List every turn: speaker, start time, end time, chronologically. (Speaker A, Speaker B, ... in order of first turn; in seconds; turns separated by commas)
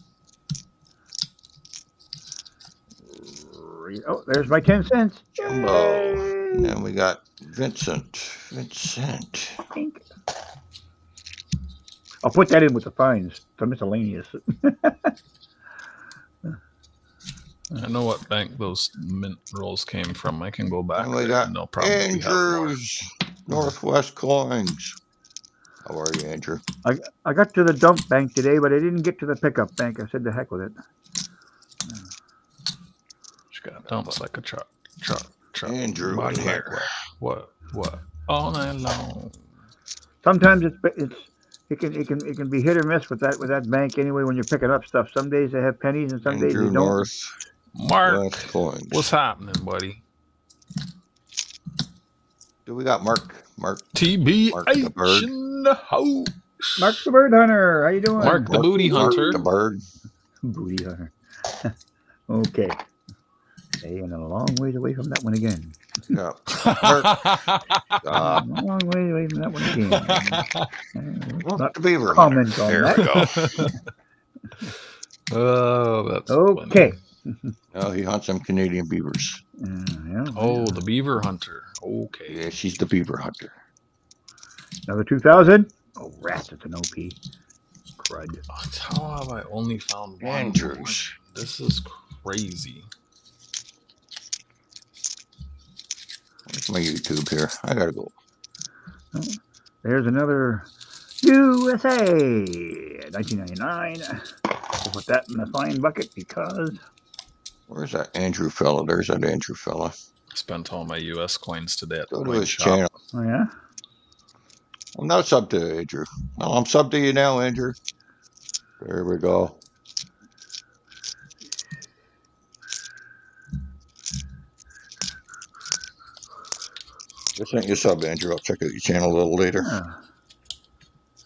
Speaker A: 3.1-6.8, Speaker B: 5.4-9.6, Speaker A: 9.7-10.0, Speaker A: 12.2-15.1, Speaker C: 17.7-22.7, Speaker B: 20.9-25.0, Speaker B: 25.8-26.6, Speaker A: 26.9-30.8, Speaker C: 33.5-39.4, Speaker B: 33.9-34.2, Speaker B: 35.6-36.9, Speaker A: 40.2-47.1, Speaker B: 46.3-47.4, Speaker C: 47.8-50.0, Speaker B: 48.0-49.1, Speaker B: 52.7-55.3, Speaker C: 54.0-57.0, Speaker A: 56.8-59.4, Speaker C: 58.2-59.4, Speaker B: 58.2-59.8, Speaker A: 60.4-61.7, Speaker A: 62.3-62.8, Speaker A: 63.8-65.8, Speaker B: 66.1-67.2, Speaker C: 66.5-68.5, Speaker B: 68.0-68.5, Speaker A: 68.2-73.1, Speaker C: 69.6-70.7, Speaker B: 71.4-73.7, Speaker C: 73.0-73.8, Speaker C: 75.3-76.8, Speaker A: 76.3-77.5, Speaker B: 77.7-79.4, Speaker A: 79.6-80.8, Speaker C: 80.4-82.4, Speaker B: 82.3-83.5, Speaker A: 84.9-87.2, Speaker A: 88.0-88.4, Speaker C: 88.5-92.9, Speaker B: 90.2-91.0, Speaker B: 96.5-98.1, Speaker A: 99.1-100.7, Speaker A: 101.2-106.8, Speaker B: 107.7-110.0, Speaker C: 110.3-112.9, Speaker B: 112.1-112.9, Speaker A: 113.1-113.5, Speaker B: 115.0-117.8, Speaker B: 118.8-119.6, Speaker B: 127.4-129.8, Speaker A: 129.6-130.0